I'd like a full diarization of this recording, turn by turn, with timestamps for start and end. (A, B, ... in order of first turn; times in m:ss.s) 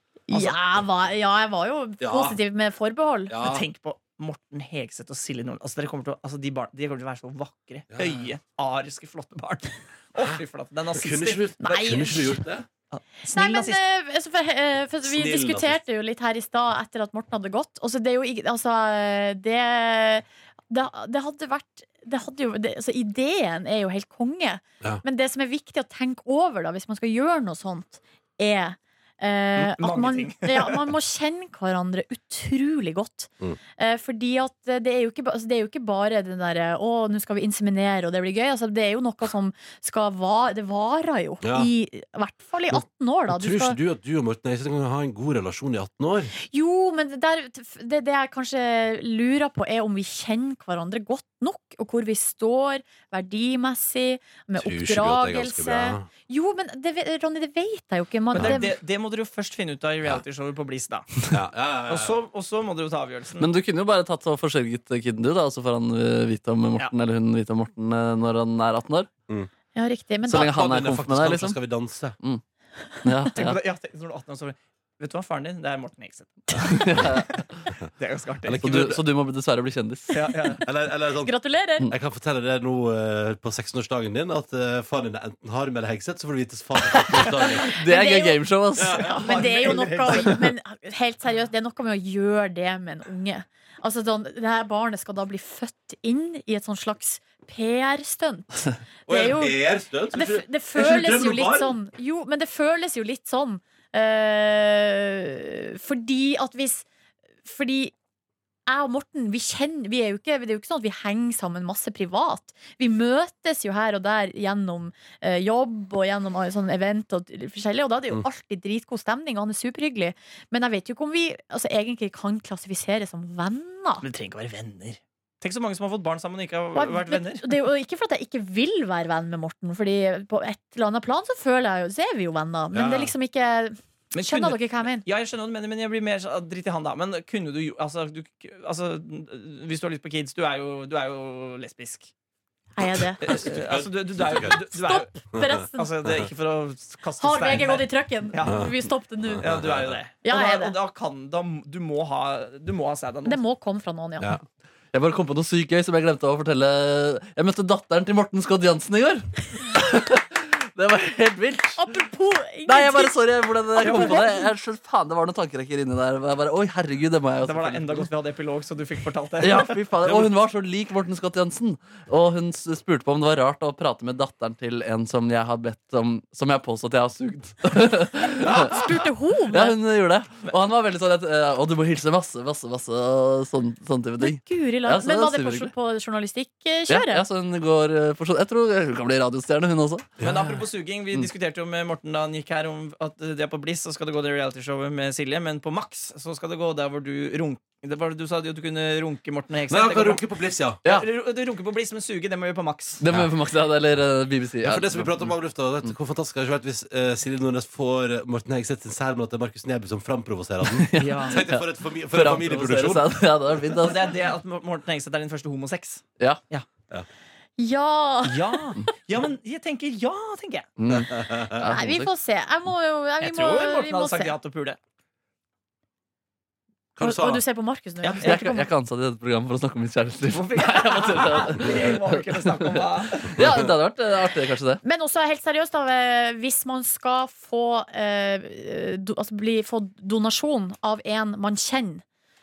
0:00.3-0:03.3 A
0:00.3-0:00.6 B
0:02.0-0:02.4 C
0:03.3-0:03.7 C
0:03.4-0:12.2 B
0:07.9-0:08.3 C
0:10.2-0:12.7 C
0:11.6-0:12.4 A
0:12.9-0:13.8 B
0:13.3-0:43.8 A
0:15.0-0:15.8 C
0:29.6-0:30.8 B
0:41.4-0:41.7 C
0:42.7-0:46.3 C
0:46.3-0:58.7 A
0:54.6-0:56.1 C
0:58.3-0:58.6 C
0:58.3-1:01.2 B
1:01.3-1:02.2 C
1:01.9-1:03.5 B
1:03.4-1:09.1 D
1:09.7-1:10.5 A
1:10.3-1:11.6 D
1:10.3-1:12.2 C
1:13.0-1:13.6 D
1:13.3-1:17.4 B
1:16.6-1:17.4 D
1:18.0-1:18.6 B
1:18.4-1:19.0 C
1:18.6-1:20.2 D
1:20.1-1:20.6 B
1:20.6-1:21.3 C
1:21.2-1:21.9 A
1:21.9-1:27.7 C
1:27.1-1:29.2 D
1:27.6-1:28.5 A
1:28.8-1:29.3 C
1:28.8-1:30.4 B
1:29.2-1:46.8 A
1:39.1-1:41.7 C
1:47.4-1:47.9 A
1:48.7-2:04.0 A
2:04.0-2:07.5 B
2:06.7-2:15.0 A
2:12.7-2:13.1 C
2:14.1-2:22.1 B
2:22.8-2:23.3 A
2:23.2-2:24.5 C
2:23.2-2:25.1 B
2:24.3-2:25.9 A
2:25.8-2:28.7 B
2:27.2-2:29.6 A
2:28.4-2:28.7 C
2:29.3-2:30.0 C
2:29.4-2:33.4 B
2:30.2-2:30.8 A
2:33.2-2:34.3 A
2:34.9-2:41.9 D
2:41.8-2:43.2 A
2:42.7-2:48.1 D
2:43.7-2:44.5 A
2:43.8-2:44.3 B
2:47.4-2:50.3 B
2:49.4-3:05.7 D
2:58.5-2:59.8 A
3:04.2-3:07.2 A
3:06.9-3:10.1 D
3:10.2-3:10.6 C
3:10.2-3:20.2 B
3:19.7-3:20.8 C
3:20.8-3:23.0 B
3:23.0-3:25.2 D
3:24.6-3:33.1 C
3:30.6-3:34.1 D
3:31.0-3:31.4 B
3:33.8-3:36.6 B
3:37.6-3:38.7 A
3:38.2-3:40.7 B
3:40.8-3:42.1 D
3:41.1-3:41.7 C
3:41.6-3:44.3 A
3:43.2-3:44.8 B
3:47.0-3:47.4 C
3:47.0-3:48.7 A
3:48.0-3:48.5 B
3:48.2-3:54.8 D
3:50.3-3:53.4 B
3:54.8-4:02.0 A